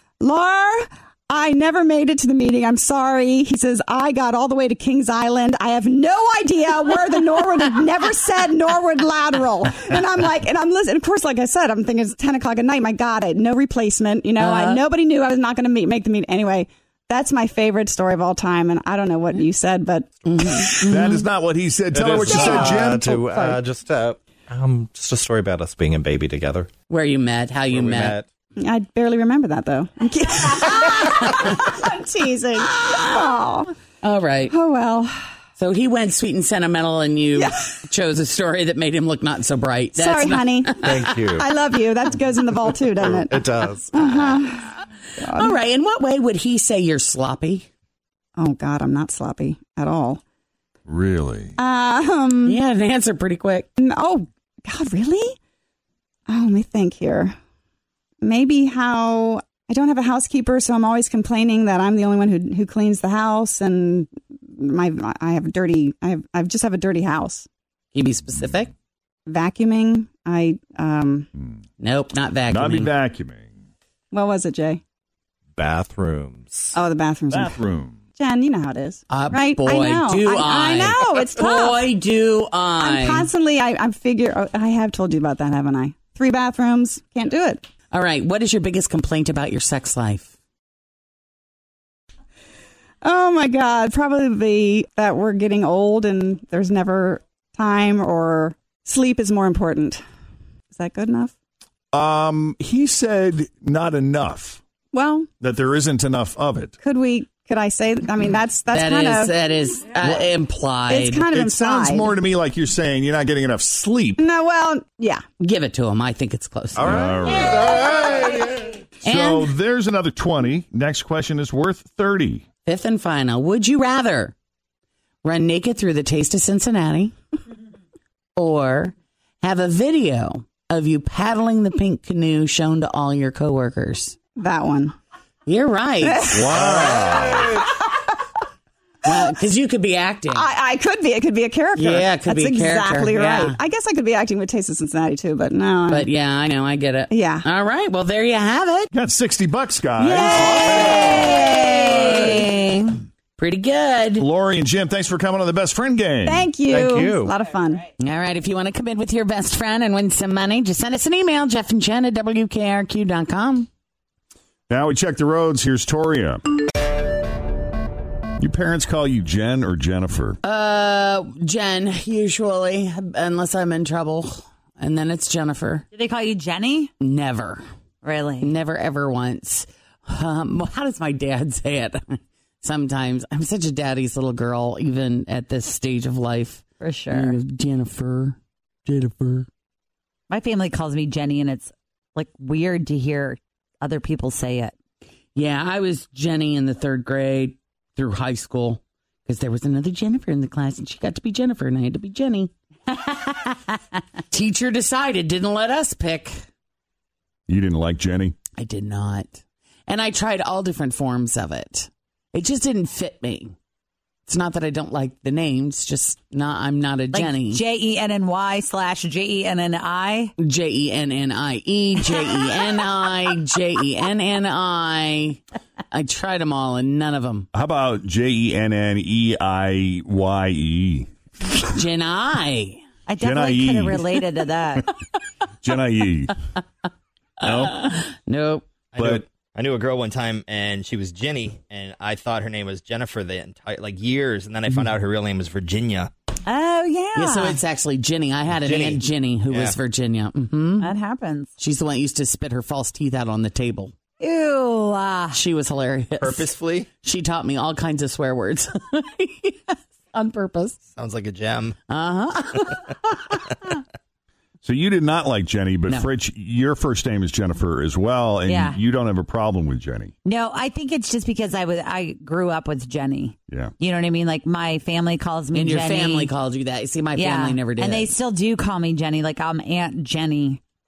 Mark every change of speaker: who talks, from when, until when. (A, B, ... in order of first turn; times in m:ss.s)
0:00.2-0:20.1 A
0:14.4-0:14.8 B
0:20.4-0:21.2 B
0:20.8-0:23.4 C
0:21.9-0:26.7 D
0:22.3-0:23.0 A
0:26.9-0:28.2 B
0:27.7-0:28.2 D
0:28.6-0:33.7 A
0:34.0-0:34.5 B
0:34.5-0:35.2 A
0:35.6-0:40.9 B
0:40.0-0:44.7 A
0:40.8-0:41.5 D
0:43.0-0:44.3 D
0:45.2-0:45.6 A
0:45.2-0:47.7 B
0:48.4-0:50.2 A
0:50.8-0:51.6 C
0:51.6-0:52.6 A
0:52.4-0:53.7 B
0:53.8-0:55.3 A
0:56.3-0:57.3 A
0:58.2-1:07.5 A
1:07.9-1:08.7 B
1:09.3-1:11.3 A
1:11.8-1:12.9 B
1:12.5-1:13.4 C
1:14.1-1:14.8 A
1:15.5-1:16.8 D
1:16.7-1:17.6 A
1:17.3-1:18.0 C
1:18.2-1:21.8 A
1:19.1-1:23.3 B
1:22.8-1:27.6 A
1:27.9-1:30.3 B
1:33.0-1:40.0 A
1:40.7-1:41.3 A
1:41.9-1:44.6 C
1:44.9-1:45.3 A
1:45.4-1:46.7 C
1:46.8-1:49.3 A
1:48.7-1:51.2 B
1:50.0-1:50.3 A
1:50.9-1:52.1 A
1:51.3-1:54.2 C
1:54.2-1:55.2 A
1:55.4-1:57.0 B
1:56.8-2:02.4 C
1:59.0-1:59.5 B
2:02.6-2:04.3 B
2:05.2-2:07.1 B
2:08.4-2:14.2 B
2:14.4-2:14.9 A
2:15.4-2:16.5 B
2:16.0-2:17.7 A
2:16.3-2:17.6 C
2:19.0-2:20.5 B
2:20.3-2:26.1 A
2:21.8-2:23.6 B
2:25.9-2:28.9 B
2:27.1-2:27.4 A
2:28.9-2:31.4 C
2:30.0-2:31.5 A
2:30.3-2:34.3 B
2:34.2-2:36.4 C
2:36.2-2:37.8 A
2:36.7-2:37.4 D
2:38.0-2:43.7 B
2:44.7-2:46.4 C
2:48.4-2:50.4 C
2:50.4-2:55.8 B
2:55.9-2:56.9 E
2:57.0-2:57.6 B
2:58.0-2:58.5 E
2:58.4-3:09.5 B
3:06.8-3:07.4 E
3:10.3-3:14.7 E
3:15.3-3:23.6 B
3:24.3-3:26.4 B
3:27.5-3:28.4 C
3:28.6-3:33.5 B
3:34.2-3:37.6 B
3:37.1-3:40.3 E
3:40.4-3:45.4 B
3:45.9-3:47.5 B
3:47.5-3:51.1 C
3:51.7-3:52.8 B
3:53.1-3:54.8 E
3:53.2-3:54.0 C
3:55.6-3:56.4 C
3:57.4-3:57.7 C
3:57.4-3:58.6 B
3:58.9-4:06.1 F
3:59.0-3:59.2 C
4:06.4-4:07.6 E
4:07.1-4:10.9 B
4:08.6-4:09.8 F
4:10.8-4:11.5 E
4:11.6-4:13.9 B
4:14.2-4:15.4 E
4:15.3-4:16.5 B
4:16.2-4:16.9 F
4:17.0-4:20.8 B
4:21.0-4:21.8 F
4:21.9-4:22.8 B
4:24.6-4:30.1 C
4:28.4-4:28.8 E
4:30.2-4:36.3 E
4:35.5-4:38.1 B
4:37.1-4:40.6 E